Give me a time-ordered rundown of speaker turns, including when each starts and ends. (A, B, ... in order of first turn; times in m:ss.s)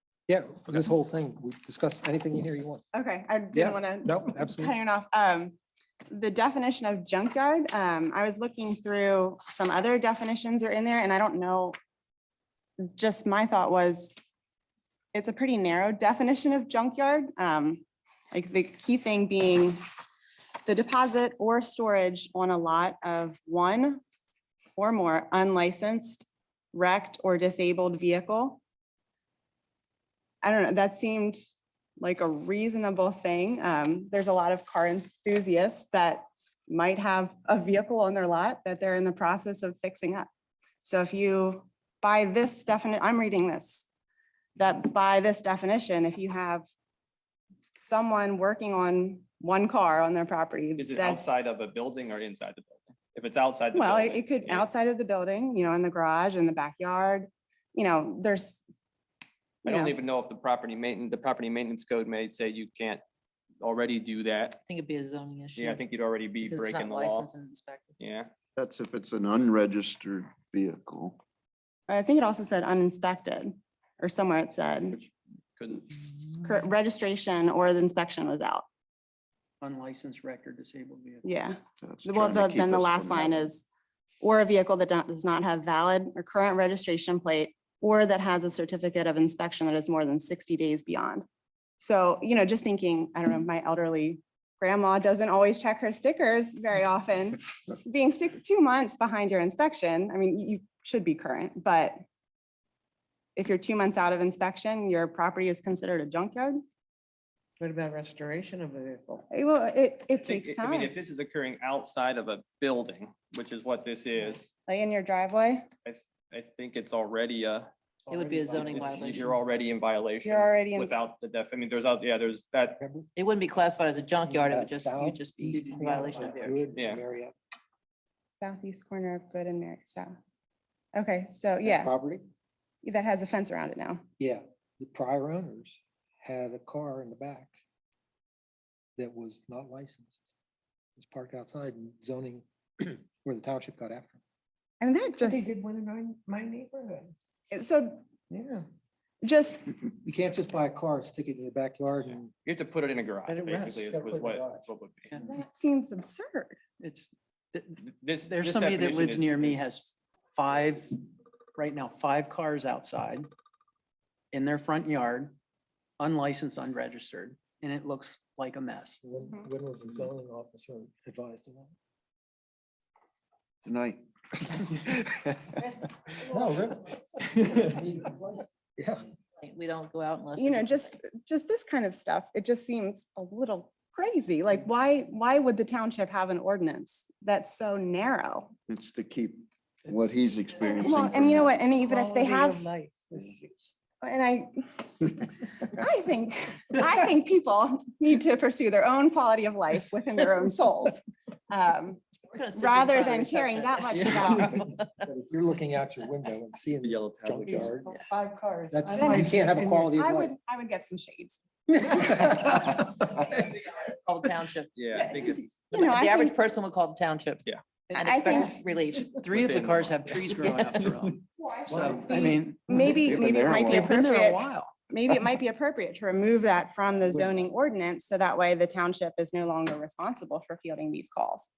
0:00.3-0:02.8 A
0:02.9-0:05.6 B
0:03.5-0:04.8 A
0:06.1-0:11.8 B
0:12.8-0:14.2 B
0:15.1-0:19.8 B
0:20.7-0:24.0 B
0:24.8-0:28.6 B
0:30.4-0:31.4 B
0:32.0-0:40.3 B
0:40.8-0:43.9 B
0:44.6-0:46.6 B
0:47.8-0:51.2 B
0:50.8-0:54.7 C
0:53.7-0:58.6 B
0:59.6-1:00.0 B
0:59.6-1:03.0 C
1:03.6-1:04.6 C
1:04.7-1:05.8 D
1:05.6-1:07.3 C
1:06.4-1:08.0 D
1:08.0-1:08.3 C
1:08.6-1:11.2 E
1:11.9-1:15.0 B
1:14.9-1:15.9 C
1:16.4-1:18.6 B
1:19.6-1:21.2 F
1:21.2-1:23.6 B
1:21.8-1:23.5 E
1:24.2-1:31.2 B
1:31.8-1:42.0 B
1:43.4-1:46.6 B
1:47.6-1:49.2 G
1:49.3-1:50.9 B
1:50.2-1:54.5 C
1:54.7-1:55.7 B
1:55.8-1:57.7 C
1:58.1-1:59.4 D
1:58.1-1:58.9 A
1:58.5-2:02.8 C
2:00.2-2:00.9 B
2:02.8-2:03.1 A
2:03.2-2:06.8 D
2:04.3-2:07.4 A
2:05.6-2:06.5 F
2:06.8-2:07.0 C
2:08.4-2:10.2 B
2:11.0-2:11.9 B
2:11.6-2:12.2 A
2:12.8-2:14.0 B
2:14.2-2:17.5 A
2:19.0-2:20.3 A
2:21.0-2:24.2 A
2:24.8-2:25.5 B
2:25.2-2:27.1 G
2:27.5-2:28.1 B
2:29.2-2:29.7 B
2:30.0-2:32.3 A
2:32.0-2:35.1 C
2:33.9-2:34.7 A
2:35.2-2:36.6 B
2:36.8-2:37.7 F
2:37.8-2:39.6 C
2:38.3-2:40.9 F
2:41.6-2:43.3 F
2:44.3-2:45.4 F
2:46.0-2:49.0 F
2:49.0-2:51.7 A
2:53.6-2:54.0 E
2:56.2-2:59.1 A
2:59.4-3:01.0 D
3:00.4-3:08.5 B
3:08.7-3:11.6 E
3:10.8-3:12.7 B
3:11.9-3:13.6 G
3:14.0-3:15.1 B
3:15.6-3:22.0 B
3:22.3-3:25.1 D
3:22.6-3:24.6 B
3:25.0-3:28.0 A
3:26.8-3:27.7 C
3:27.6-3:29.3 G
3:28.7-3:30.3 A
3:28.9-3:32.2 B
3:33.8-3:34.8 D
3:34.8-3:35.7 C
3:35.0-3:36.3 B
3:35.7-3:39.2 D
3:37.9-3:38.6 F
3:38.0-3:38.6 B
3:39.2-3:44.7 F
3:39.2-3:40.3 C
3:40.3-3:41.0 D
3:41.5-3:51.5 B
3:42.0-3:42.4 G
3:42.8-3:44.0 E